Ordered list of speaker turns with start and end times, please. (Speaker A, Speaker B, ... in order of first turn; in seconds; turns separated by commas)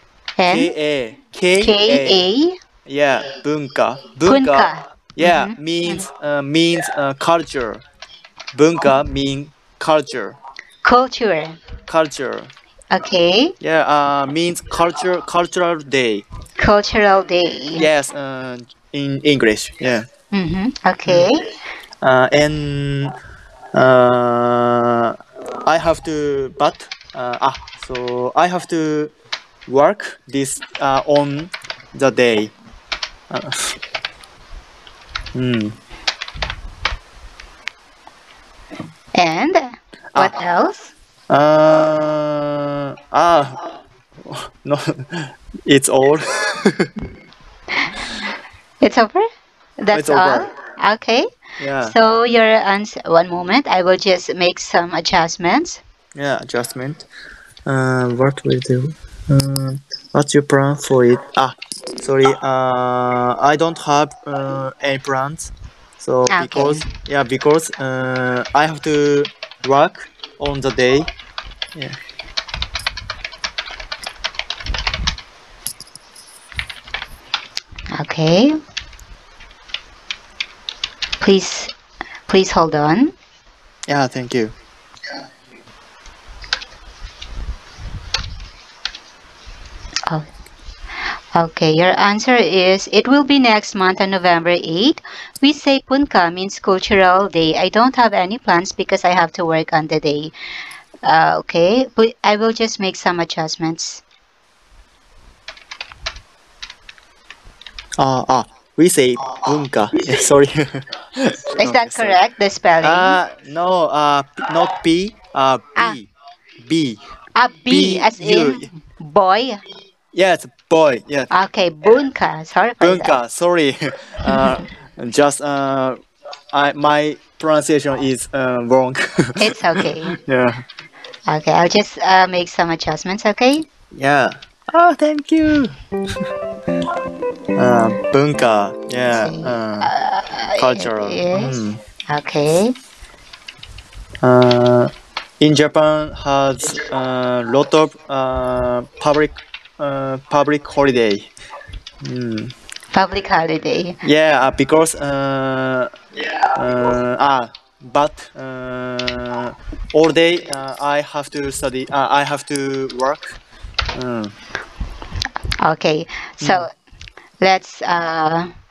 Speaker A: 0.4-0.7, Speaker B: 0.5-2.2, Speaker A: 1.6-2.6, Speaker B: 2.9-7.8, Speaker A: 4.2-6.0, Speaker B: 8.5-10.4, Speaker A: 10.8-11.6, Speaker B: 11.9-12.5, Speaker A: 12.9-13.5, Speaker B: 13.6-16.2, Speaker A: 16.6-17.9, Speaker B: 17.8-20.0, Speaker A: 20.3-21.5, Speaker B: 22.0-23.1, Speaker B: 23.7-29.1, Speaker B: 29.7-32.5, Speaker B: 33.3-33.8, Speaker B: 35.3-35.8, Speaker A: 39.1-40.9, Speaker B: 41.3-46.9, Speaker A: 48.8-49.2, Speaker A: 49.8-51.3, Speaker B: 49.9-50.5, Speaker B: 51.6-51.9, Speaker A: 51.8-55.8, Speaker B: 56.1-57.0, Speaker B: 57.6-71.1, Speaker A: 66.3-66.8, Speaker A: 77.9-78.5, Speaker A: 81.2-81.7, Speaker A: 82.3-83.1, Speaker B: 83.9-84.5, Speaker A: 91.3-100.3, Speaker A: 101.0-104.0, Speaker B: 108.0-112.2, Speaker A: 111.6-113.2, Speaker B: 112.8-117.0, Speaker A: 117.3-119.6, Speaker B: 117.7-118.7, Speaker B: 120.1-121.3, Speaker A: 121.3-123.2, Speaker B: 122.8-126.0, Speaker A: 124.2-124.6, Speaker B: 126.5-130.6, Speaker A: 129.4-130.2, Speaker A: 131.3-133.7, Speaker B: 133.9-135.8, Speaker B: 137.6-139.9, Speaker A: 139.1-142.7, Speaker B: 140.6-141.8, Speaker B: 144.2-151.3, Speaker B: 152.0-152.5, Speaker A: 152.9-154.0, Speaker B: 154.0-155.9, Speaker B: 156.5-163.4, Speaker B: 163.9-164.3, Speaker A: 165.6-166.7, Speaker B: 166.4-166.7, Speaker A: 167.4-168.5